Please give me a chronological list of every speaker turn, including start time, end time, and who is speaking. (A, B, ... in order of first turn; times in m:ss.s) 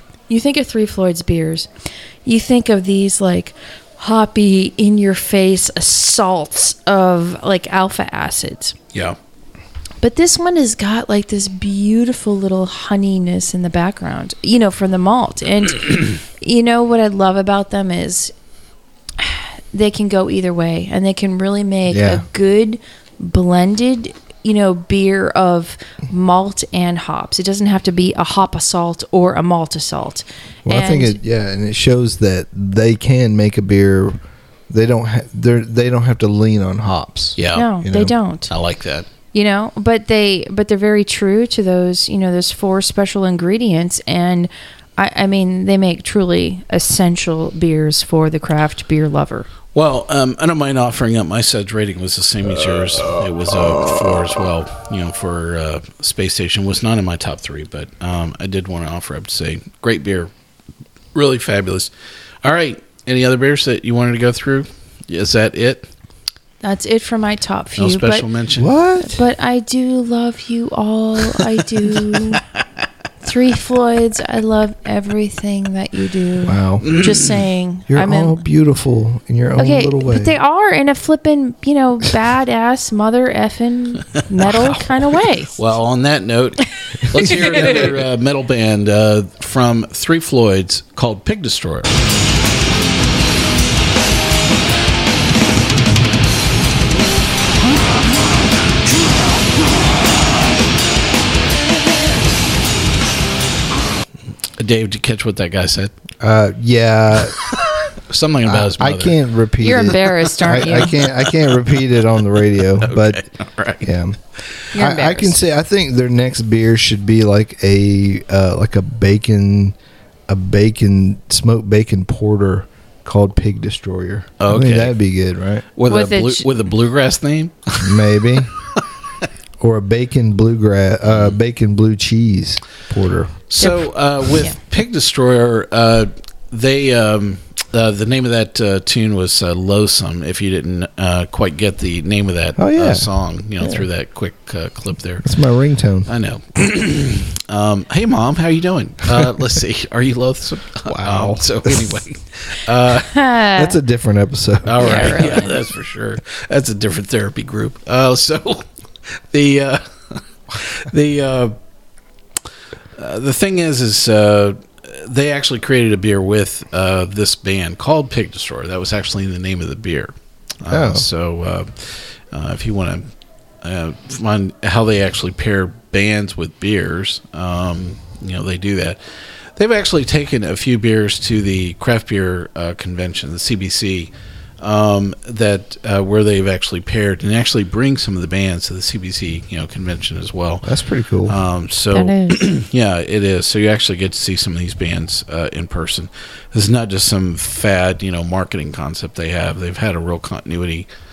0:00.3-0:01.7 A
0:02.2-0:08.7 A
0:10.0-0:18.3 A
0:19.2-0:31.2 A
0:21.9-0:22.2 B
0:30.6-0:34.2 B
0:34.7-0:38.1 B
0:37.4-0:37.7 C
0:37.5-0:38.5 A
0:38.5-0:39.1 C
0:39.3-0:49.5 A
0:49.7-1:00.3 C
1:01.1-1:01.9 C
1:02.4-1:05.9 C
1:06.6-1:08.2 A
1:07.8-1:08.7 C
1:08.6-1:09.2 B
1:09.0-1:12.4 A
1:13.2-1:18.4 A
1:16.4-1:16.9 B
1:16.8-1:17.4 C
1:17.9-1:20.3 B
1:19.6-1:25.5 A
1:25.5-1:31.9 C
1:27.2-1:27.8 A
1:27.5-1:27.9 B
1:44.6-1:45.9 C
1:46.2-1:47.4 B
1:47.5-1:49.2 C
1:48.4-1:53.2 B
1:49.6-1:50.9 A
1:50.6-1:51.6 C
1:52.8-1:53.8 C
1:53.8-1:54.2 B
1:54.7-1:55.4 A
1:54.8-1:59.8 B
2:00.3-2:05.6 B
2:04.4-2:05.0 C
2:05.8-2:08.1 C
2:05.9-2:06.4 A
2:07.8-2:08.5 B
2:09.6-2:13.3 B
2:11.0-2:11.4 C
2:13.5-2:25.3 C
2:13.6-2:14.6 A
2:22.6-2:23.1 B
2:23.6-2:23.8 B
2:25.2-2:26.1 B
2:26.0-2:33.1 C
2:30.9-2:32.0 B
2:33.1-2:33.7 A
2:33.6-2:35.4 B
2:34.6-2:41.5 C
2:34.8-2:35.5 A
2:43.0-2:53.1 C
2:50.7-2:51.0 B
2:53.6-2:59.0 C
2:59.6-3:10.7 C
3:10.6-3:11.4 B
3:11.2-3:20.9 C
3:11.9-3:12.4 A